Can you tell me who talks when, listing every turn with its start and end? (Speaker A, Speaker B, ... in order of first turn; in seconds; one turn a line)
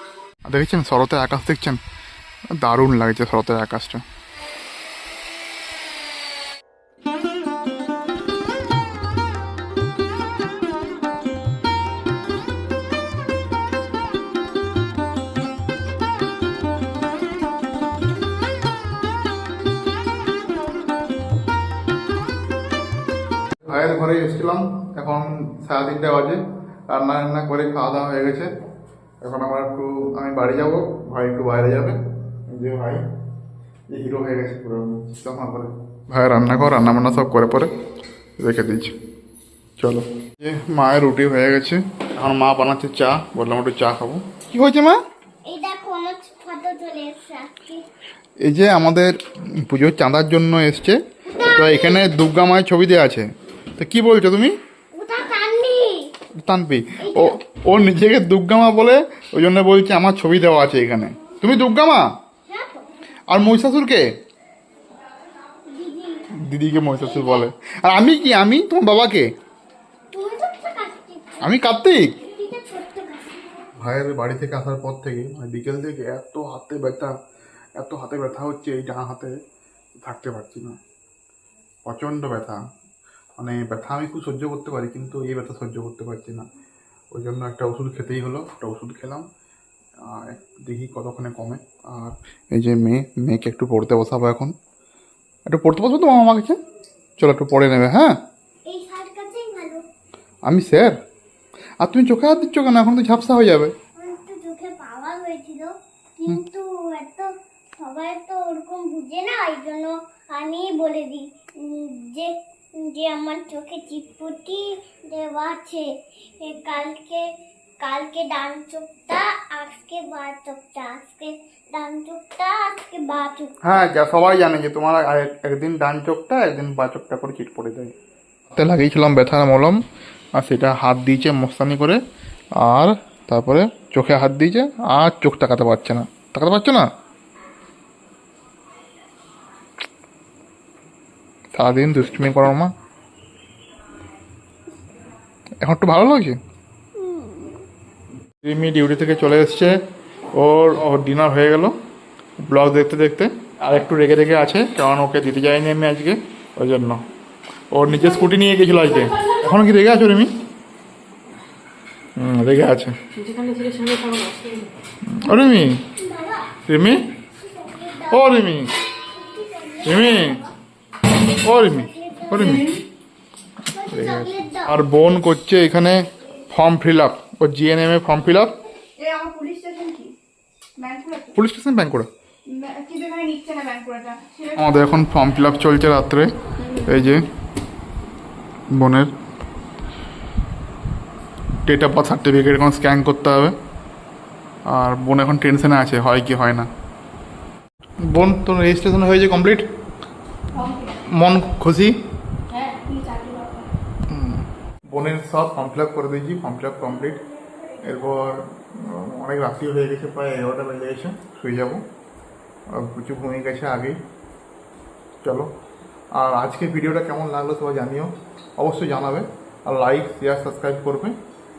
Speaker A: 0.5-1.8
Speaker A: 2.6-4.0
Speaker A: 23.7-28.5
Speaker A: 29.2-33.0
Speaker A: 33.9-37.7
Speaker A: 38.4-39.0
Speaker A: 39.8-45.0
Speaker B: 45.5-47.9
Speaker A: 48.4-51.0
Speaker B: 51.3-52.1
Speaker A: 51.5-54.5
Speaker B: 54.9-56.1
Speaker A: 56.4-62.1
Speaker B: 57.0-57.4
Speaker B: 62.5-62.9
Speaker A: 63.3-64.1
Speaker B: 65.7-66.3
Speaker A: 66.4-69.3
Speaker B: 67.0-67.5
Speaker B: 70.1-71.5
Speaker A: 71.4-72.1
Speaker B: 72.2-73.7
Speaker A: 73.8-77.1
Speaker A: 77.8-79.4
Speaker A: 80.0-80.8
Speaker A: 81.8-82.6
Speaker A: 83.4-86.5
Speaker A: 87.1-89.3
Speaker A: 90.0-94.5
Speaker A: 95.5-96.6
Speaker A: 97.2-98.2
Speaker B: 98.7-99.8
Speaker A: 100.5-101.0
Speaker A: 101.8-103.7
Speaker B: 104.0-115.9
Speaker B: 116.4-123.6
Speaker A: 123.6-127.9
Speaker A: 128.5-129.8
Speaker A: 130.4-132.0
Speaker A: 132.6-136.9
Speaker A: 141.6-142.7
Speaker A: 145.6-146.4
Speaker B: 147.0-147.6
Speaker A: 148.4-149.8
Speaker A: 150.3-151.8
Speaker A: 152.4-157.0
Speaker A: 157.7-160.3
Speaker A: 162.2-163.0
Speaker C: 163.2-164.7
Speaker A: 165.0-165.8
Speaker B: 166.0-166.6
Speaker A: 166.7-167.0
Speaker B: 167.4-168.3
Speaker A: 168.1-168.7
Speaker B: 169.1-170.5
Speaker A: 169.8-170.4
Speaker A: 171.3-172.8
Speaker B: 171.7-172.7
Speaker C: 172.5-172.8
Speaker B: 173.7-174.8
Speaker A: 173.9-178.6
Speaker C: 179.0-180.2
Speaker C: 180.8-181.3
Speaker A: 181.3-182.1
Speaker C: 182.5-184.6
Speaker A: 184.6-187.2
Speaker A: 188.7-189.1
Speaker A: 191.7-193.6
Speaker A: 194.7-196.7
Speaker A: 198.1-199.7
Speaker C: 200.5-200.9
Speaker A: 201.0-201.9
Speaker C: 202.5-203.7
Speaker A: 204.1-207.2
Speaker A: 207.8-211.8
Speaker A: 212.7-214.0
Speaker A: 215.2-215.5
Speaker A: 216.2-221.1